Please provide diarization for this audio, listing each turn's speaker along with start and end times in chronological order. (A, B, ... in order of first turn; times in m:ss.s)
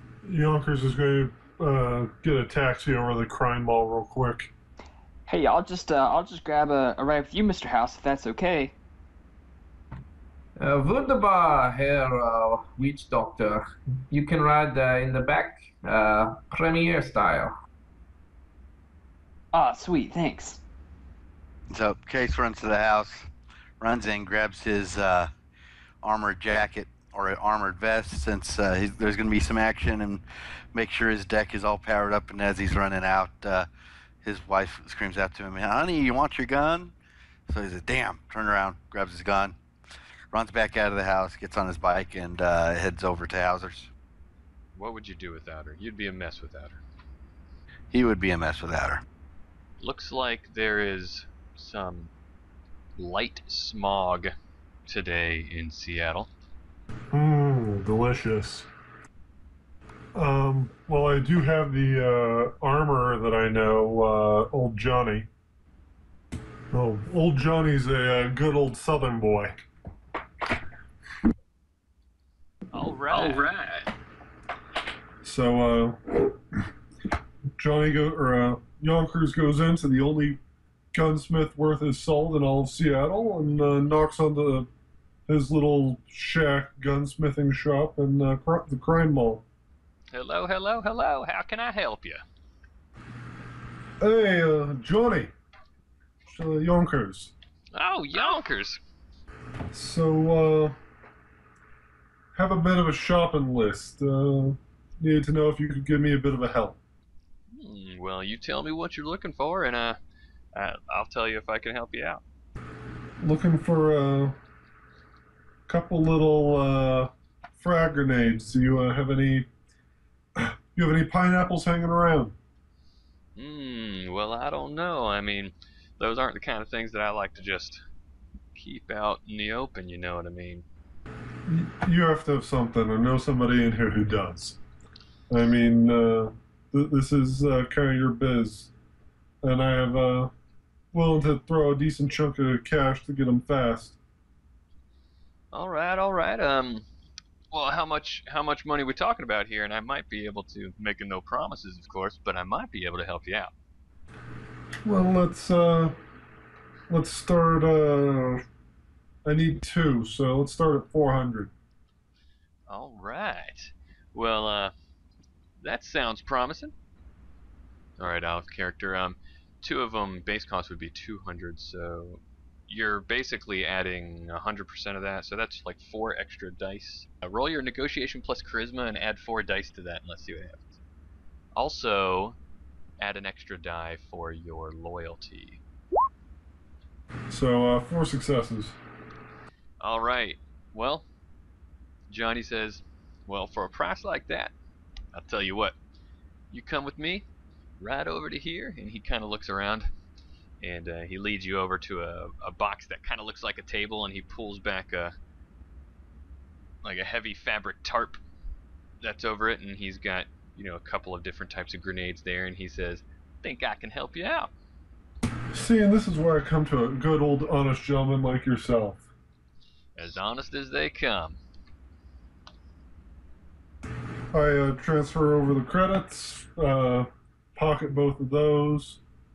0:00.2-0:04.5 A
0:05.3-0:08.7 B
0:10.6-0:17.5 C
0:19.5-0:20.6 B
0:21.7-0:23.3 D
0:23.8-0:25.3 D
0:26.0-0:30.2 D
0:30.7-0:33.7 D
0:34.2-0:37.0 D
0:37.5-0:39.6 D
0:40.3-0:43.9 D
0:44.8-0:46.8 E
0:47.9-0:49.0 D
0:49.8-0:52.1 E
0:53.0-0:54.3 E
0:54.9-0:56.3 E
0:57.1-0:58.7 A
1:00.1-1:05.3 A
1:06.7-1:09.6 A
1:12.7-1:13.9 E
1:15.2-1:16.4 A
1:17.6-1:20.4 A
1:20.9-1:24.7 A
1:25.3-1:29.4 A
1:30.1-1:32.2 E
1:34.0-1:35.3 A
1:36.3-1:37.3 A
1:37.7-1:38.8 E
1:39.7-1:40.8 A
1:42.3-1:46.8 A
1:47.5-1:50.0 E
1:50.5-1:52.2 E
1:53.2-1:54.4 A
1:55.7-1:59.5 A
2:00.4-2:02.4 A
2:03.4-2:07.8 E
2:08.6-2:10.7 E
2:11.5-2:14.6 A
2:15.3-2:18.7 A
2:19.4-2:20.3 A
2:20.9-2:24.0 A
2:25.5-2:26.9 E
2:27.5-2:33.5 E
2:34.8-2:36.0 A
2:36.9-2:38.4 A
2:39.2-2:41.5 A
2:42.7-2:44.7 E
2:45.6-2:46.7 E
2:48.0-3:00.7 E
3:01.5-3:02.4 E
3:03.0-3:05.6 E
3:07.3-3:08.8 A
3:09.8-3:11.1 E
3:12.1-3:14.5 E
3:15.1-3:15.8 E
3:16.5-3:17.3 E
3:17.8-3:19.9 E
3:20.6-3:25.2 E
3:26.8-3:28.2 E
3:29.0-3:34.5 E
3:35.5-3:39.0 A
3:40.0-3:41.4 E
3:44.3-3:49.0 A